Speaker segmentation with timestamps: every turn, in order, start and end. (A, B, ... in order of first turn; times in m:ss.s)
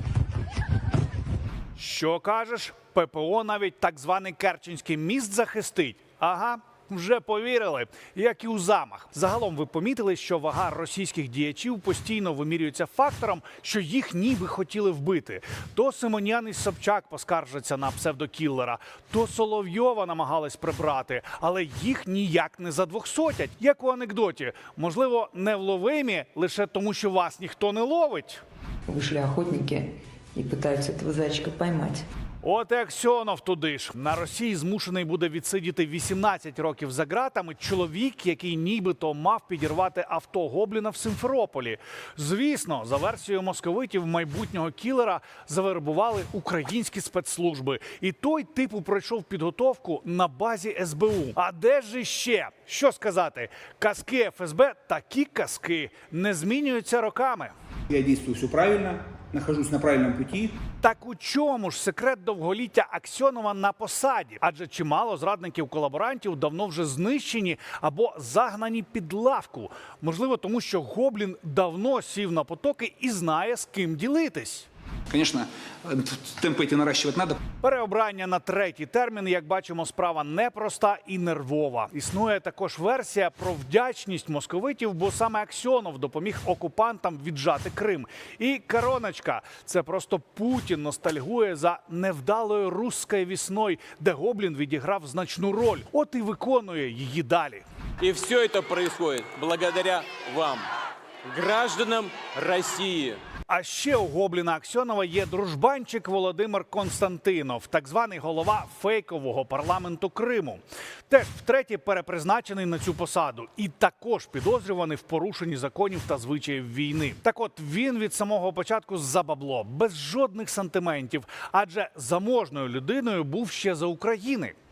0:01.8-0:28.4 A
0:28.9-0:32.0 B
0:32.4-0:57.5 A
0:57.9-1:00.6 C
1:00.8-1:14.7 A
1:15.1-1:17.4 C
1:17.6-1:37.6 A
1:38.0-1:40.7 D
1:41.2-1:43.2 D
1:43.5-2:04.5 A